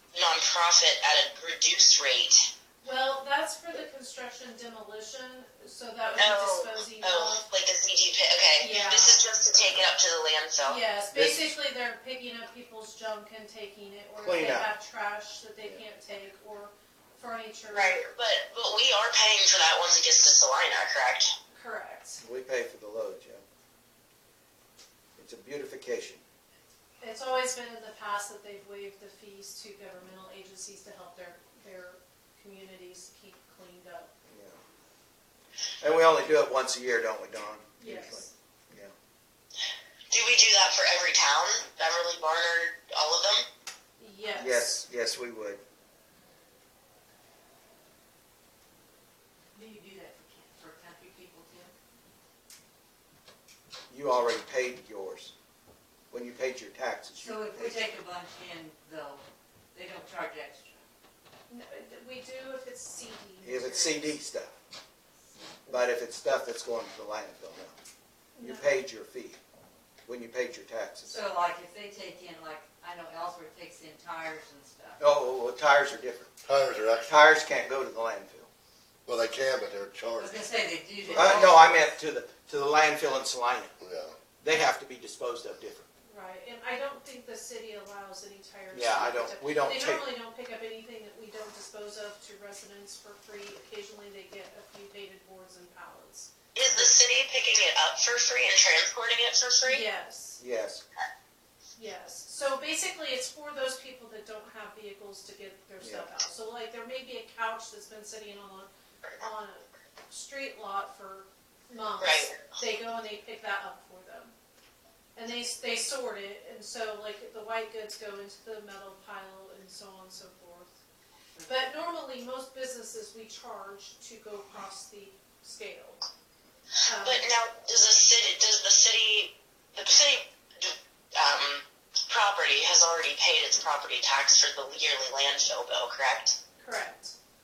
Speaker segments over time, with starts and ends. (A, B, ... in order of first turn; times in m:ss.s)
0:00.1-0:02.5 A
0:02.8-0:07.5 B
0:06.1-0:10.8 A
0:08.6-0:09.2 B
0:10.6-0:18.0 B
0:11.1-0:11.6 C
0:14.2-0:14.7 C
0:17.7-0:21.3 A
0:21.5-0:22.2 B
0:22.2-0:23.4 C
0:25.2-0:26.2 C
0:27.0-0:34.1 B
0:34.3-0:34.6 C
0:35.8-0:38.9 C
0:37.8-0:38.3 B
0:40.1-0:43.4 A
0:44.0-0:44.8 B
0:44.3-0:45.6 C
0:49.5-0:51.7 D
0:53.9-0:55.3 C
0:56.1-0:57.8 C
0:57.1-1:00.8 D
1:01.5-1:04.2 B
1:03.4-1:04.5 C
1:05.3-1:05.8 D
1:05.7-1:07.7 C
1:08.4-1:08.8 B
1:08.4-1:09.4 C
1:10.0-1:11.2 C
1:11.0-1:15.0 D
1:15.0-1:16.3 C
1:16.4-1:17.2 E
1:17.0-1:18.5 C
1:19.0-1:20.5 E
1:20.2-1:21.9 D
1:21.1-1:23.7 C
1:23.8-1:24.2 E
1:24.4-1:25.9 C
1:26.0-1:36.9 B
1:28.7-1:30.1 C
1:36.5-1:39.8 A
1:39.6-1:40.4 B
1:40.4-1:40.8 C
1:41.8-1:48.7 B
1:45.8-1:46.2 C
1:49.2-1:54.3 B
1:52.0-1:52.4 A
1:55.2-2:00.8 B
2:01.3-2:01.8 D
2:01.4-2:06.0 B
2:06.8-2:07.3 B
2:07.0-2:16.4 A
2:16.6-2:17.1 B